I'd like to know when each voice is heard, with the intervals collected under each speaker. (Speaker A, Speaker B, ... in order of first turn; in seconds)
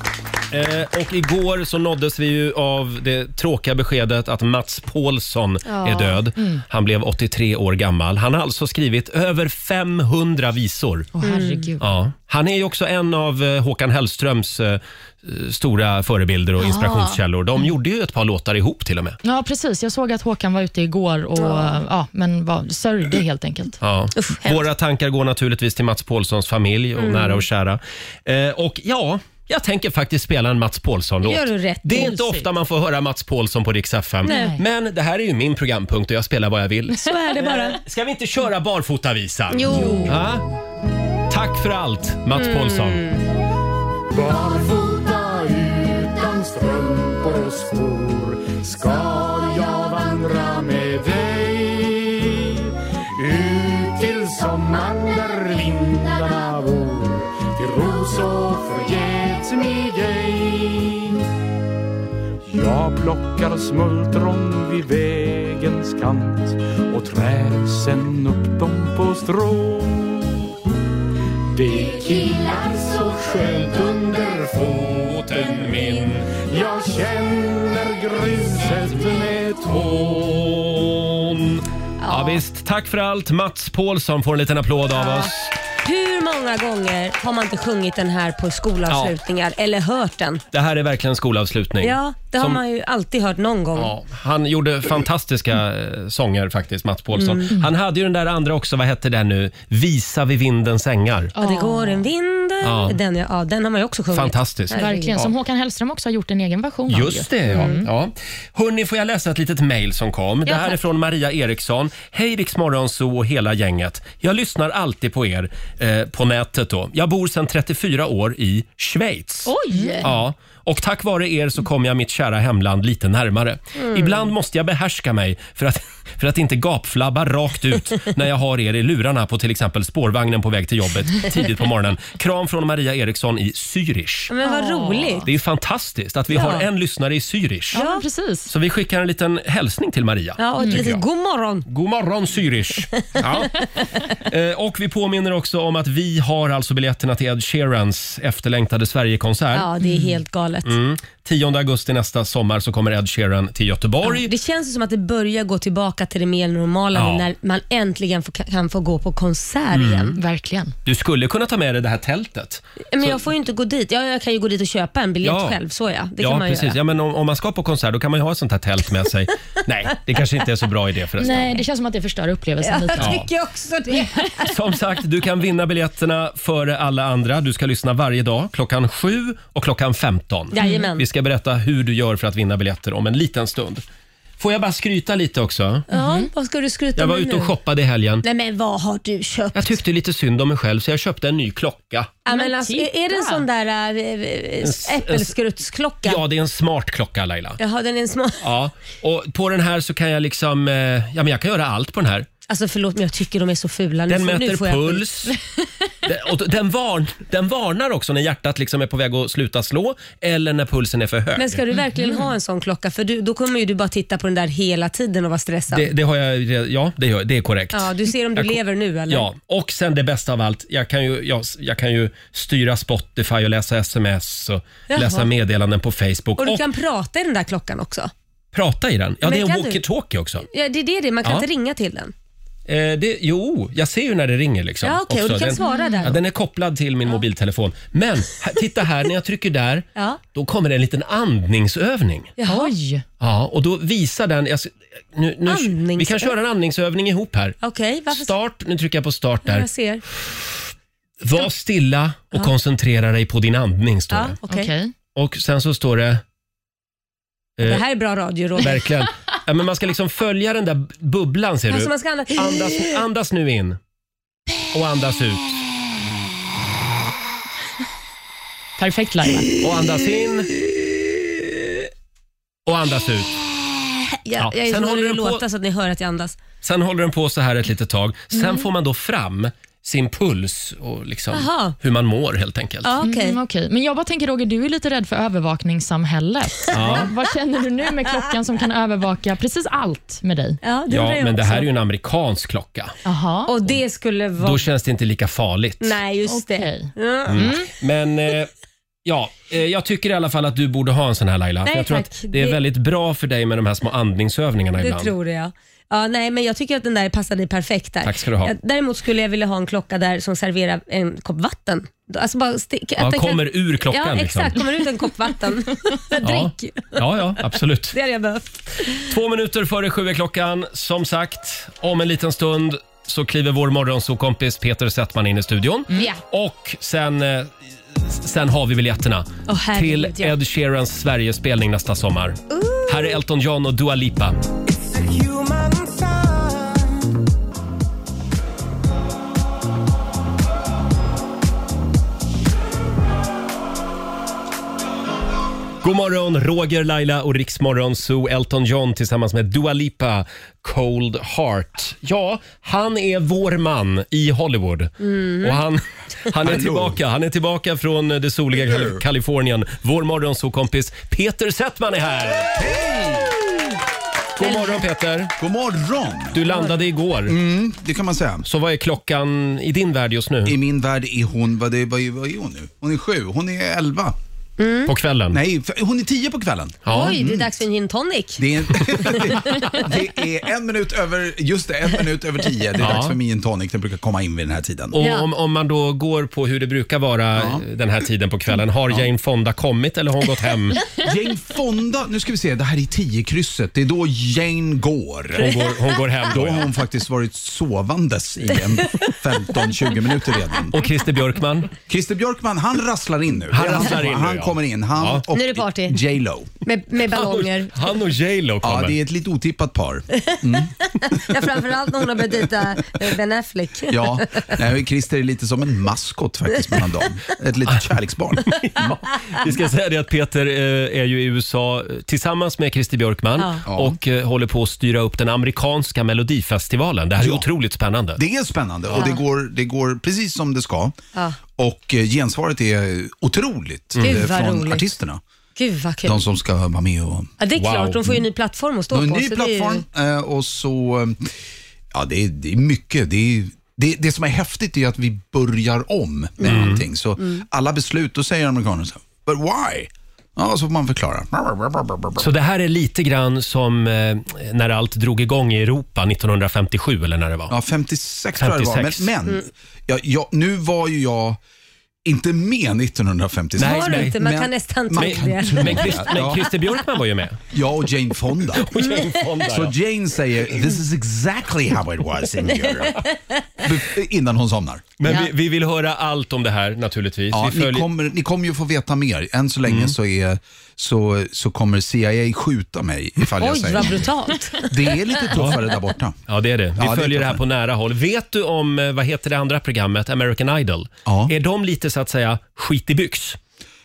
Speaker A: 0.5-11.1, 11.8-19.2, 23.8-40.4, 41.3-43.0, 75.0-76.3, 79.9-85.5, 90.5-92.6, 93.8-101.3, 102.6-103.0, 104.1-105.3, 106.9-119.5, 120.0-134.3, 135.2-137.8, 138.5-141.0, 141.7-149.7, 150.6-154.3, 156.9-157.2, 159.7-160.2, 160.8-163.2, 165.2-165.6, 166.2-171.5, 173.0-173.3, 174.5-183.8, 184.4-185.8, 186.9-188.2, 189.6-192.1, 194.6-195.3, 196.1-197.6, 198.4-202.3, 204.1-205.4, 206.0-211.6, 215.7-218.6, 219.1-226.6, 228.5-230.5, 232.7-242.3, 243.2-247.6, 248.1-249.7, 251.2-254.4, 255.1-256.2, 257.6-257.8, 258.6-263.8, 264.7-265.5, 269.6-270.5, 272.6-273.3, 274.4-275.4, 276.6-282.9, 286.7-287.1, 290.9-292.9, 294.4-296.0, 297.3-298.5, 299.1-305.1, 308.0-308.5, 313.0-314.6, 316.2-317.9, 319.1-334.4, 345.8-362.6, 364.4-365.3, 366.3-367.4, 368.4-370.6, 374.9-375.4, 376.9-377.1, 382.8-383.1, 384.9-390.9, 395.4-396.7, 400.7-401.7, 403.5-405.2, 407.1-408.9, 418.4-428.2, 433.9-434.3, 437.6-438.2, 446.4-446.8, 452.2-457.5, 458.4-459.1, 463.6-464.2, 464.9-467.4, 468.5-469.7, 475.0-477.9, 479.7-479.9, 486.3-493.4
Speaker B: 5.7-6.2, 11.2-11.7, 16.6-17.2, 21.4-21.8, 24.2-24.6, 27.0-27.4, 31.2-32.1, 34.3-34.5, 37.0-37.8, 39.5-40.2, 42.4-43.2, 82.0-82.4, 84.9-85.3, 85.8-90.4, 91.8-93.9, 97.2-97.5, 101.4-105.2, 107.5-107.8, 110.5-110.8, 119.7-120.1, 123.8-124.3, 134.3-135.3, 136.3-136.7, 137.7-138.0, 140.4-141.6, 143.0-143.6, 149.5-150.7, 154.0-160.2, 162.9-166.8, 171.2-171.5, 172.6-174.5, 180.5-181.1, 185.9-187.6, 188.2-189.8, 192.2-196.2, 197.6-198.4, 202.5-205.1, 211.4-215.9, 217.7-219.3, 224.9-225.3, 226.4-228.1, 229.2-229.8, 230.5-232.1, 234.8-236.2, 239.9-240.2, 242.4-242.7, 245.4-246.3, 247.6-248.3, 249.4-250.0, 254.1-254.7, 257.6-258.8, 261.7-263.0, 274.2-276.4, 281.3-281.8, 282.8-283.4, 286.8-287.1, 290.6-291.7, 293.5-294.7, 295.8-297.6, 301.6-302.6, 304.8-319.1, 329.5-330.4, 332.5-333.2, 355.1-355.6, 364.4-364.8, 366.5-366.8, 374.6-374.9, 376.9-379.7, 385.0-385.3, 405.3-406.0, 406.6-407.7, 410.2-414.6, 434.0-434.9, 435.6-436.2, 437.4-439.8, 446.4-447.4, 463.6-466.4, 468.8-469.2, 475.1-475.3, 483.4-485.2
Speaker C: 6.4-6.6, 11.1-11.8, 19.2-23.8, 31.9-32.5, 34.2-34.6, 39.7-40.1, 101.3-102.0, 104.7-107.9, 119.5-120.1, 134.4-135.2, 137.7-138.5, 140.6-140.9, 149.8-150.1, 160.2-160.8, 171.2-173.2, 180.6-180.9, 185.9-186.3, 192.3-193.4, 211.7-212.2, 235.6-236.2, 242.4-243.0, 254.5-254.9, 268.8-269.5, 278.3-278.6, 283.0-290.6, 293.1-293.5, 296.3-297.7
Speaker D: 44.1-61.2, 62.5-70.4, 71.5-75.1, 76.3-80.0, 334.9-335.8
Speaker E: 356.4-357.0, 358.6-359.0, 362.5-363.4, 365.4-366.4, 367.2-368.4, 370.4-374.2, 375.3-377.5, 378.4-385.0, 387.4-387.6, 391.0-395.6, 396.3-400.7, 401.9-406.5, 408.6-411.4, 413.9-418.9, 423.6-424.0, 427.2-427.5, 428.1-430.9, 431.6-435.2, 436.0-437.4, 438.9-441.4, 441.9-452.3, 457.5-461.4, 462.1-466.5, 467.5-468.7, 469.4-473.1, 473.6-475.2, 477.3-486.2, 486.8-487.4, 491.1-491.3